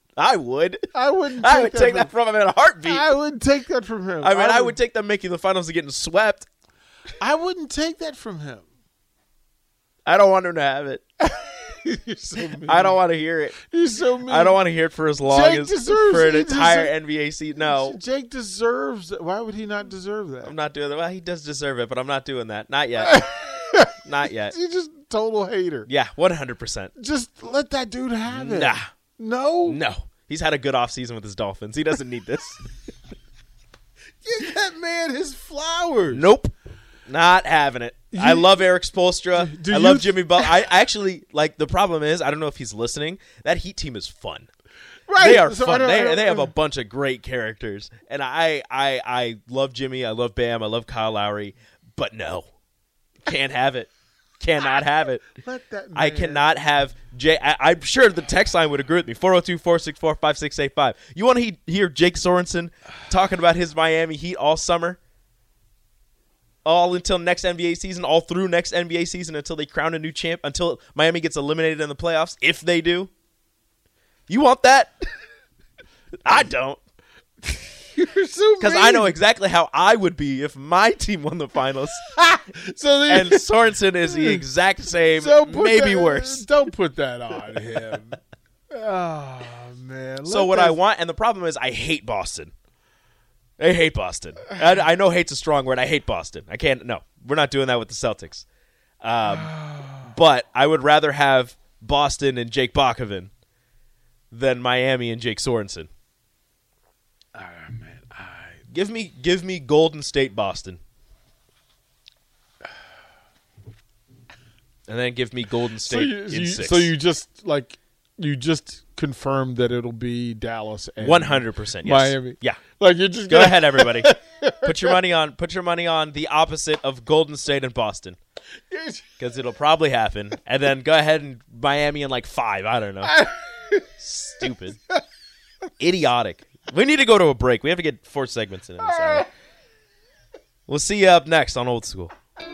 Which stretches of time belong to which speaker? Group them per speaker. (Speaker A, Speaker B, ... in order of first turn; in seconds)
Speaker A: 0.1-3.1, 4.2-6.5, 10.1-11.0, 12.6-13.6, 14.2-18.0, 20.4-23.2, 24.0-24.5, 25.9-26.9, 28.2-28.8, 29.6-32.6, 36.1-36.5, 37.1-44.5, 45.1-52.5, 53.2-55.3, 55.9-65.0, 66.6-73.1, 74.3-75.0, 76.2-76.8, 78.6-82.0, 83.1-86.5, 90.2-92.5, 93.6-98.4, 99.0-103.3, 104.3-105.9, 108.7-110.8, 114.9-116.9, 121.0-122.6, 123.2-128.2, 129.2-133.1, 134.0-134.8, 135.8-139.2, 140.7-142.1
Speaker B: 0.9-2.1, 2.8-4.8, 7.2-8.6, 11.2-13.0, 13.6-14.7, 15.2-17.0, 17.6-20.5, 23.0-25.9, 26.9-29.8, 34.2-36.4, 38.1-38.7, 39.3-40.7, 45.1-46.5, 55.3-56.5, 77.4-79.2, 82.0-88.2, 88.7-90.8, 99.2-100.1, 107.3-108.6, 115.7-125.0, 128.7-129.1, 133.0-133.9, 134.4-135.0, 138.8-139.3